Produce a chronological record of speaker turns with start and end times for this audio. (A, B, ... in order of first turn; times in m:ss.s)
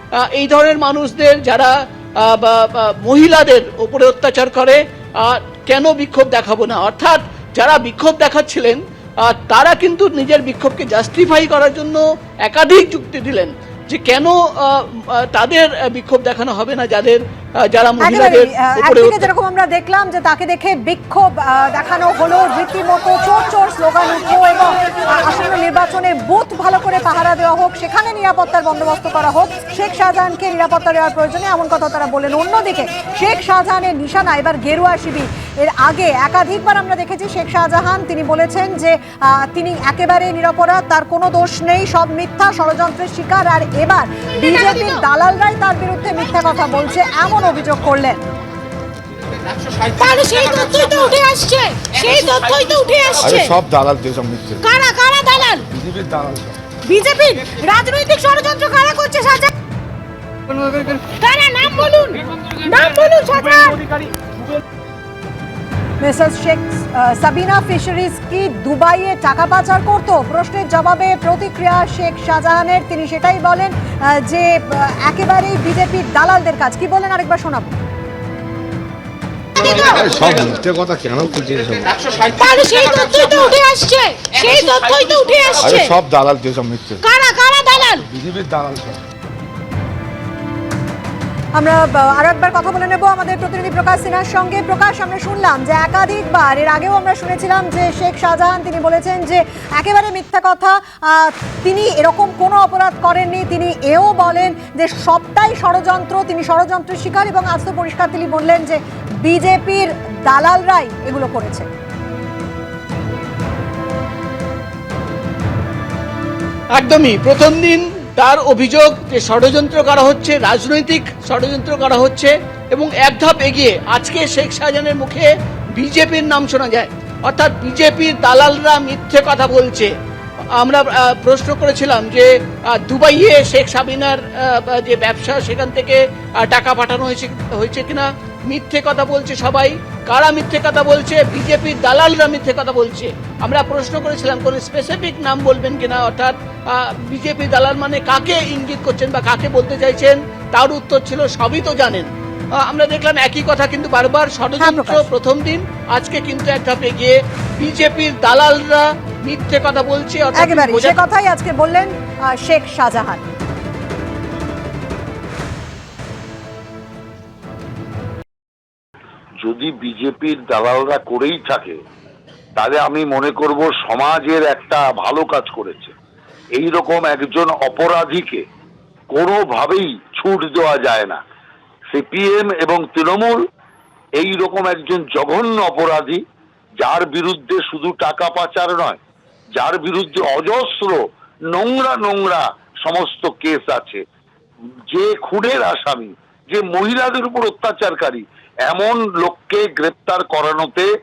0:00.2-0:17.2 A
0:17.7-0:19.3 A
0:18.0-0:48.2 B
0:44.5-0:45.0 C
0:49.9-0:53.6 C
0:53.2-0:54.6 D
0:54.6-0:55.7 C
0:55.7-0:56.6 D
0:56.8-0:59.5 C
1:01.0-1:03.8 C
1:06.0-1:17.8 B
1:19.6-1:20.2 C
1:19.9-1:22.2 D
1:22.3-1:26.0 C
1:25.6-1:27.0 D
1:27.0-1:28.1 C
1:28.1-1:29.0 D
1:31.6-1:51.7 B
1:56.8-2:09.9 A
2:10.6-2:32.1 A
2:32.6-2:41.0 A
2:34.6-2:35.1 B
2:40.4-2:43.2 B
2:49.4-2:51.8 E
2:52.6-2:55.9 E
2:56.6-2:58.4 E
2:59.1-3:01.2 E
3:01.9-3:03.4 E
3:04.2-3:06.2 E
3:06.8-3:09.0 E
3:09.6-3:11.0 E
3:11.5-3:14.0 E
3:14.9-3:20.9 E